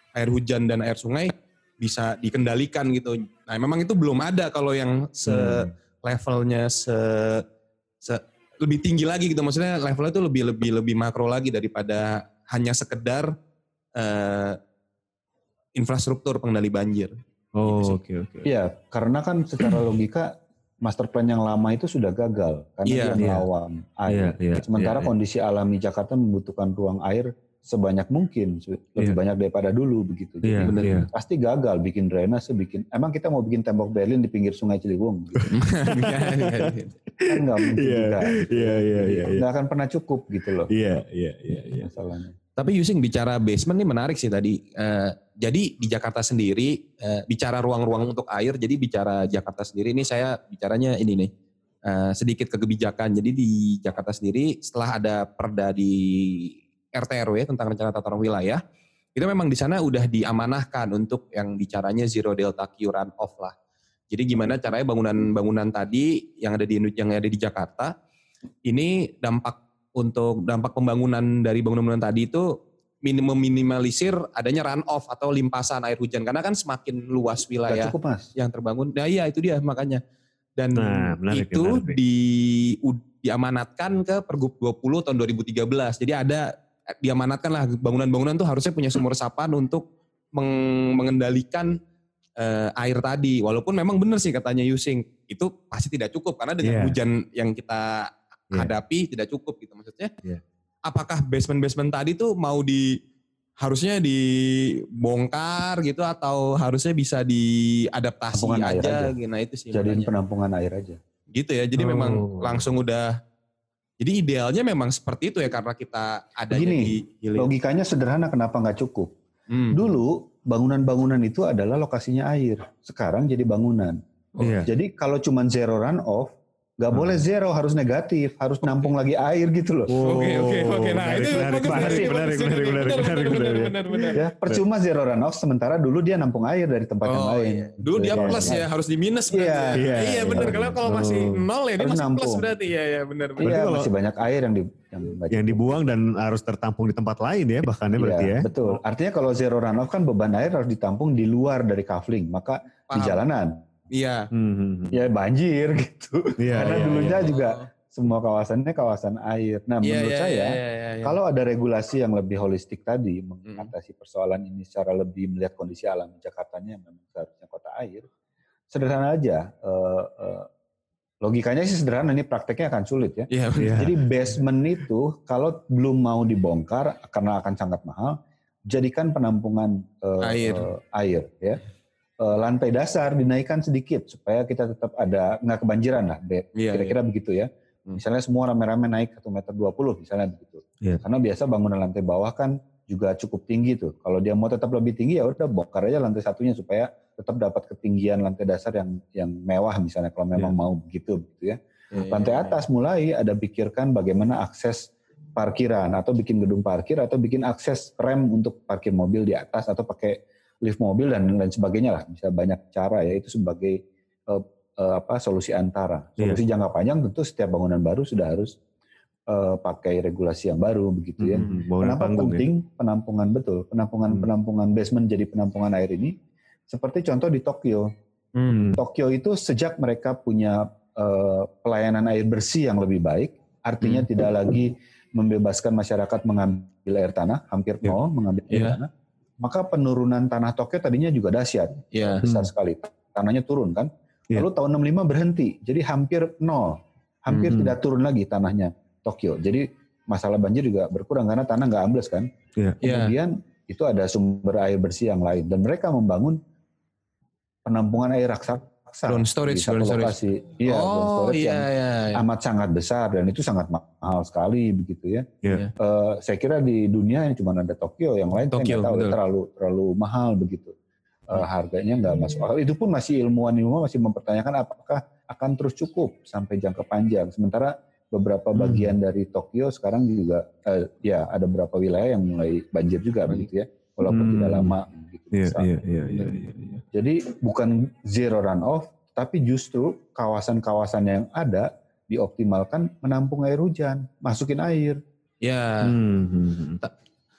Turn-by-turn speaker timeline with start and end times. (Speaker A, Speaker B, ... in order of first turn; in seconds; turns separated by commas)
Speaker A: 0.2-7.4, Speaker B: 5.3-5.7, Speaker A: 8.0-13.3, Speaker A: 14.0-14.6, Speaker A: 15.8-17.1, Speaker B: 17.6-18.5, Speaker A: 17.7-17.9, Speaker C: 18.4-20.3, Speaker C: 20.8-35.5, Speaker A: 22.9-23.2, Speaker B: 23.2-23.5, Speaker B: 24.1-25.1, Speaker B: 30.4-31.1, Speaker B: 35.3-39.4, Speaker A: 35.5-37.0, Speaker C: 37.3-40.7, Speaker B: 40.7-41.9, Speaker C: 41.7-42.4, Speaker A: 42.6-51.3, Speaker A: 51.9-58.6, Speaker A: 59.1-63.5, Speaker A: 64.1-67.9, Speaker A: 68.7-72.5, Speaker A: 73.0-80.0, Speaker C: 77.7-78.3, Speaker A: 80.6-86.5, Speaker B: 80.8-82.0, Speaker A: 87.0-89.8, Speaker A: 90.4-91.8, Speaker A: 92.4-100.1, Speaker B: 96.6-97.0, Speaker A: 100.9-103.0, Speaker A: 103.6-110.1, Speaker C: 108.3-109.1, Speaker C: 109.7-111.0, Speaker A: 111.3-113.1, Speaker B: 111.8-112.7, Speaker A: 114.0-117.5, Speaker C: 116.5-119.1, Speaker A: 119.5-119.8, Speaker C: 119.7-124.0, Speaker B: 124.4-124.7, Speaker C: 124.6-129.9, Speaker B: 126.9-127.2, Speaker B: 129.9-134.6, Speaker A: 130.1-134.2, Speaker C: 131.7-132.2, Speaker C: 134.1-138.6, Speaker A: 137.1-143.5, Speaker B: 138.1-138.6, Speaker C: 139.3-140.6, Speaker B: 139.8-141.3, Speaker C: 141.8-142.5, Speaker B: 143.4-143.9, Speaker C: 143.4-145.8, Speaker B: 145.3-148.8, Speaker C: 148.0-153.6, Speaker A: 152.9-153.2, Speaker A: 153.9-154.2, Speaker B: 154.3-155.0, Speaker C: 154.9-168.1, Speaker B: 156.4-157.3, Speaker A: 156.6-157.7, Speaker A: 159.8-161.2, Speaker C: 168.7-170.5, Speaker C: 171.2-178.2, Speaker A: 173.3-173.8, Speaker B: 173.6-173.9, Speaker C: 178.7-181.6, Speaker A: 180.2-180.7, Speaker C: 182.2-201.6, Speaker A: 186.6-186.9, Speaker A: 201.9-202.6, Speaker C: 202.1-218.6, Speaker C: 219.3-226.1, Speaker B: 221.2-222.5, Speaker C: 226.7-227.9, Speaker A: 228.4-228.7, Speaker B: 228.5-228.8, Speaker C: 228.7-238.9, Speaker A: 238.5-238.8, Speaker C: 239.4-252.3, Speaker A: 241.9-242.2, Speaker B: 242.2-242.5, Speaker B: 247.3-247.8, Speaker A: 252.8-253.1, Speaker C: 252.8-256.4, Speaker C: 257.7-270.7, Speaker A: 259.1-262.2, Speaker A: 268.5-269.1, Speaker C: 271.3-285.7, Speaker B: 278.6-278.9, Speaker B: 284.1-284.7, Speaker B: 285.3-286.8, Speaker C: 286.9-295.0, Speaker A: 295.4-295.9, Speaker B: 295.8-296.8